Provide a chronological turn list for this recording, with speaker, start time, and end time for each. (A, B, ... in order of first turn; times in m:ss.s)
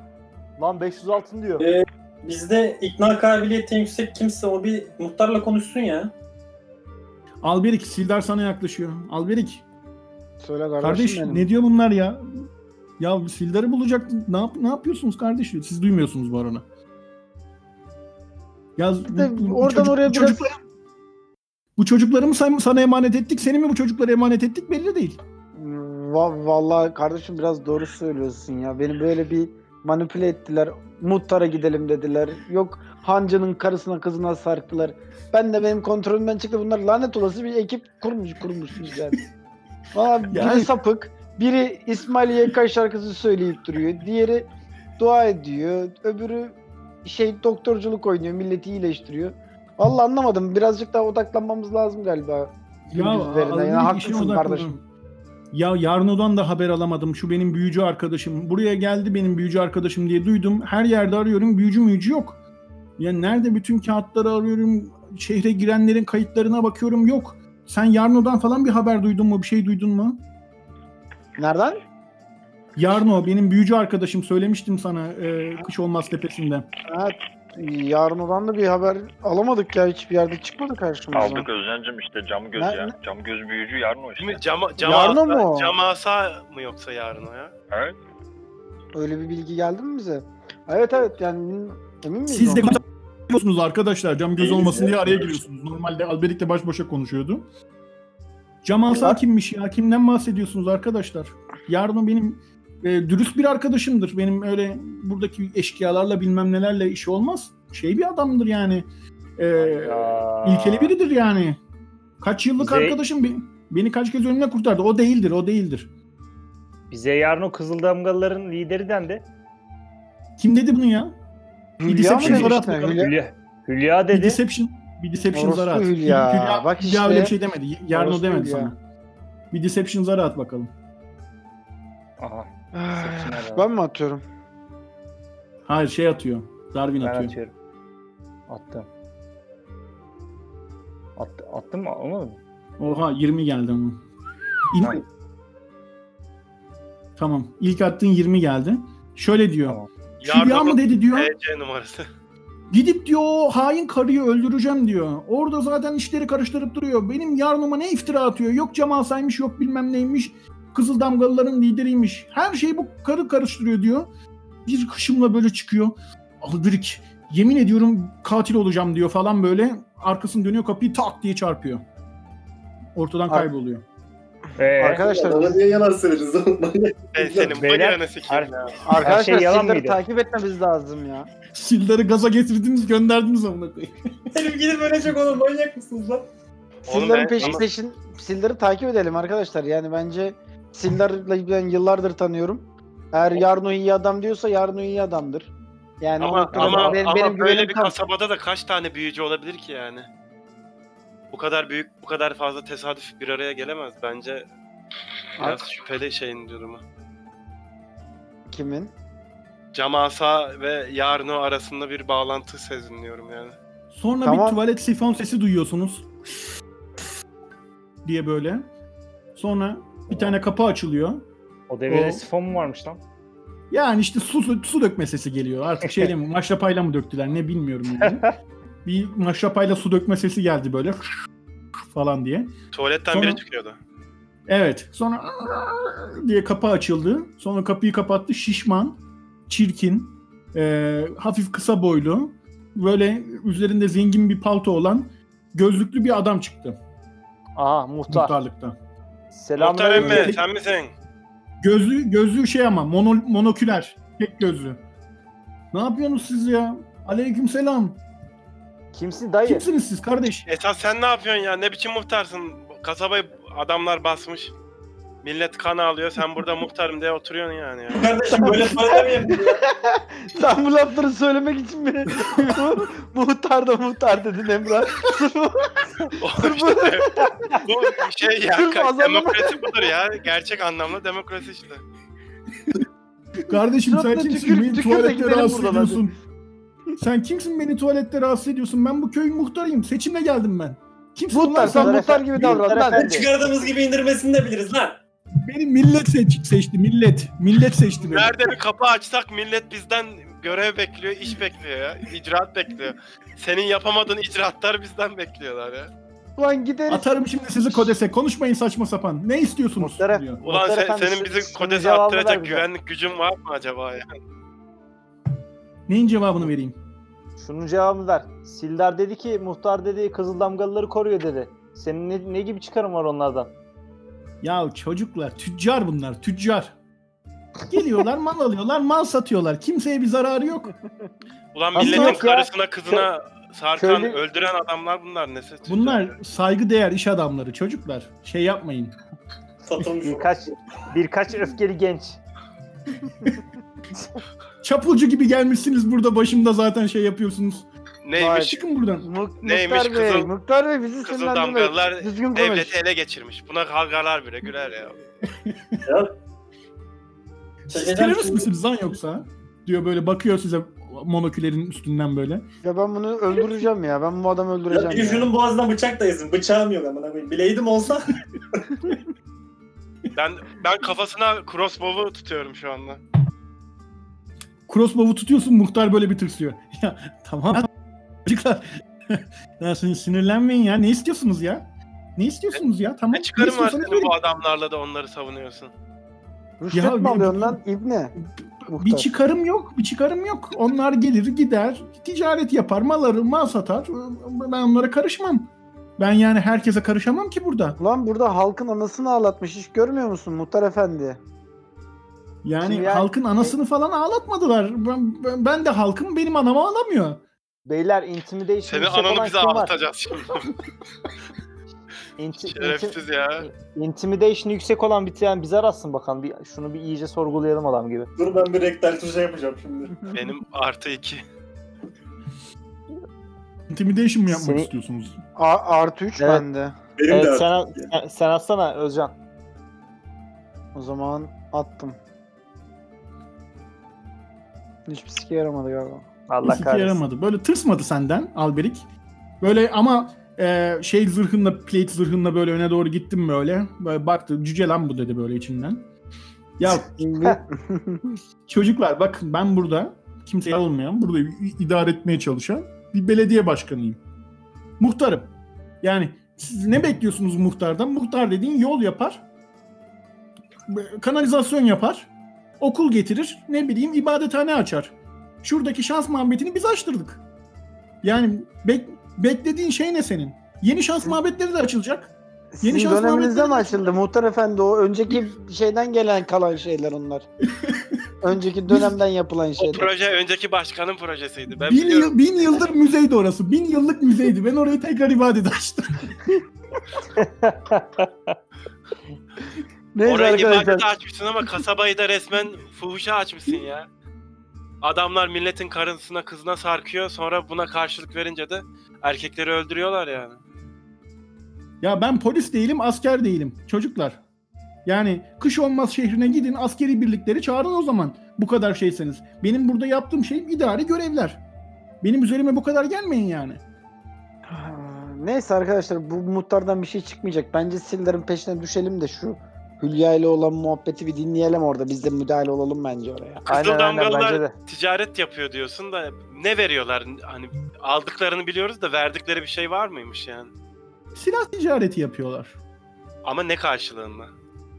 0:00.6-0:01.7 A
0:01.6-0:06.1 B
0:07.4-0:09.6 C
0:10.4-0:11.5 D
0:10.8-0:12.2 C
0:13.0-0:16.6 C
0:18.8-0:20.6 C
0:19.1-0:20.5 D
0:21.8-0:25.2 C
0:25.5-0:39.2 D
0:39.9-0:54.7 D
0:40.3-0:40.7 C
0:52.9-0:54.8 C
0:55.5-1:02.4 C
1:03.0-1:10.2 C
1:11.4-1:11.8 D
1:12.8-1:16.7 C
1:16.9-1:21.5 D
1:21.1-1:24.4 E
1:22.5-1:22.9 D
1:24.2-1:27.5 F
1:24.8-1:25.8 D
1:27.7-1:28.0 E
1:28.9-1:32.8 D
1:32.3-1:37.4 C
1:34.4-1:34.9 B
1:38.6-1:48.8 C
1:38.9-1:39.2 D
1:49.4-1:51.6 C
1:49.6-1:50.9 A
1:52.2-1:55.9 C
1:52.6-1:53.0 A
1:56.9-1:59.2 A
2:00.4-2:01.2 C
2:01.8-2:03.1 D
2:01.8-2:03.1 C
2:02.2-2:04.4 A
2:04.1-2:08.8 C
2:05.3-2:07.3 D
2:07.9-2:08.7 D
2:09.5-2:10.7 C
2:12.2-2:13.7 A
2:12.7-2:14.2 D
2:15.6-2:17.3 C
2:17.0-2:17.5 A
2:18.5-2:18.9 A
2:21.2-2:22.4 A
2:22.8-2:24.0 C
2:24.7-2:25.0 C
2:27.2-2:31.3 C
2:30.2-2:32.1 F
2:32.7-2:44.1 C
2:44.6-2:51.8 C
2:53.0-2:53.8 C
2:54.6-2:55.0 A
2:54.8-2:55.6 D
2:55.0-2:57.6 B
2:57.1-2:58.8 F
2:57.4-3:00.0 A
2:58.8-3:01.3 D
3:01.5-3:03.9 C
3:04.3-3:06.2 B
3:06.9-3:07.7 F
3:06.9-3:18.0 D
3:16.2-3:20.1 F
3:16.5-3:17.0 A
3:21.3-3:24.5 F
3:25.4-3:25.7 D
3:25.4-3:26.8 F
3:28.5-3:28.9 D
3:29.7-3:33.6 F
3:33.9-3:36.1 C
3:34.2-3:34.6 D
3:38.0-3:38.7 C
3:39.3-3:41.3 C
3:40.1-3:40.4 A
3:41.7-3:43.0 A
3:41.9-3:42.2 C
3:43.7-3:48.3 C
3:48.8-3:51.2 C
3:51.8-3:52.5 C
3:52.7-3:53.8 F
3:53.1-3:53.4 C
3:54.5-4:06.8 C
4:07.6-4:08.4 A
4:08.1-4:08.8 C
4:09.3-4:10.3 A
4:09.6-4:10.9 F
4:10.0-4:10.4 C
4:11.6-4:14.8 C
4:15.7-4:18.0 C
4:18.9-4:19.7 A
4:19.4-4:20.5 C
4:20.5-4:24.5 F
4:25.2-4:28.1 F
4:27.9-4:29.6 B
4:28.4-4:37.7 D
4:36.2-4:41.8 F
4:38.5-4:39.9 D
4:43.4-4:46.1 C
4:43.8-4:46.1 D
4:47.0-4:52.6 C
4:51.3-4:53.2 D
4:51.6-4:53.3 A
4:52.9-4:55.0 B
4:55.3-4:58.3 C
4:58.0-5:05.9 F
5:06.4-5:07.9 D
5:06.9-5:10.4 C
5:09.8-5:12.6 A
5:10.4-5:14.2 F
5:15.9-5:16.8 C
5:17.4-5:23.5 A
5:24.4-5:26.7 C
5:27.7-5:30.7 C
5:31.5-5:36.2 F
5:31.7-5:33.1 A
5:31.8-5:32.2 C
5:33.8-5:34.2 A
5:35.7-5:39.0 C
5:39.6-5:40.3 B
5:40.0-5:42.2 A
5:44.6-5:47.6 C
5:48.0-5:48.6 F
5:48.2-5:52.8 D
5:48.4-5:49.1 C
5:49.4-5:50.3 F
5:51.0-5:55.0 F
5:55.2-5:55.8 C
5:55.8-5:56.1 B
5:57.7-5:58.5 B
5:57.7-6:02.4 C
6:02.6-6:05.3 D
6:04.7-6:08.2 B
6:10.1-6:13.0 F
6:14.7-6:17.7 C
6:18.2-6:24.1 C
6:23.1-6:25.7 F
6:26.6-6:28.1 D
6:26.7-6:27.6 C
6:28.7-6:37.8 C
6:28.7-6:29.1 D
6:37.8-6:41.2 D
6:42.4-6:47.2 C
6:42.6-6:43.5 A
6:47.7-6:49.7 A
6:48.6-6:50.5 F
6:52.2-6:58.1 A
6:52.4-6:53.5 F
6:58.2-7:00.1 B
7:00.1-7:01.2 F
7:03.7-7:05.2 C
7:04.3-7:04.7 A
7:05.4-7:06.8 D
7:06.2-7:06.4 A
7:07.0-7:07.9 B
7:07.1-7:09.1 A
7:10.7-7:12.0 D
7:14.9-7:16.1 D
7:16.3-7:17.0 A
7:16.4-7:18.8 C
7:19.4-7:25.8 C
7:26.6-7:26.9 C
7:27.0-7:28.2 D
7:28.5-7:34.0 C
7:34.8-7:39.2 C
7:40.7-7:42.1 C
7:42.6-7:47.2 C
7:48.0-7:54.0 C
7:52.5-7:57.3 D
7:57.5-7:58.0 C
7:58.2-7:59.9 D
7:59.6-8:02.1 F
8:01.6-8:06.2 C
8:07.1-8:08.4 A
8:09.9-8:10.9 D
8:10.0-8:13.9 F
8:14.8-8:20.4 F
8:21.8-8:24.2 C
8:24.8-8:31.4 C
8:32.0-8:33.6 C
8:34.5-8:43.4 D
8:43.4-8:50.5 F
8:43.5-8:44.5 A
8:51.1-8:52.6 C
8:53.2-8:54.3 F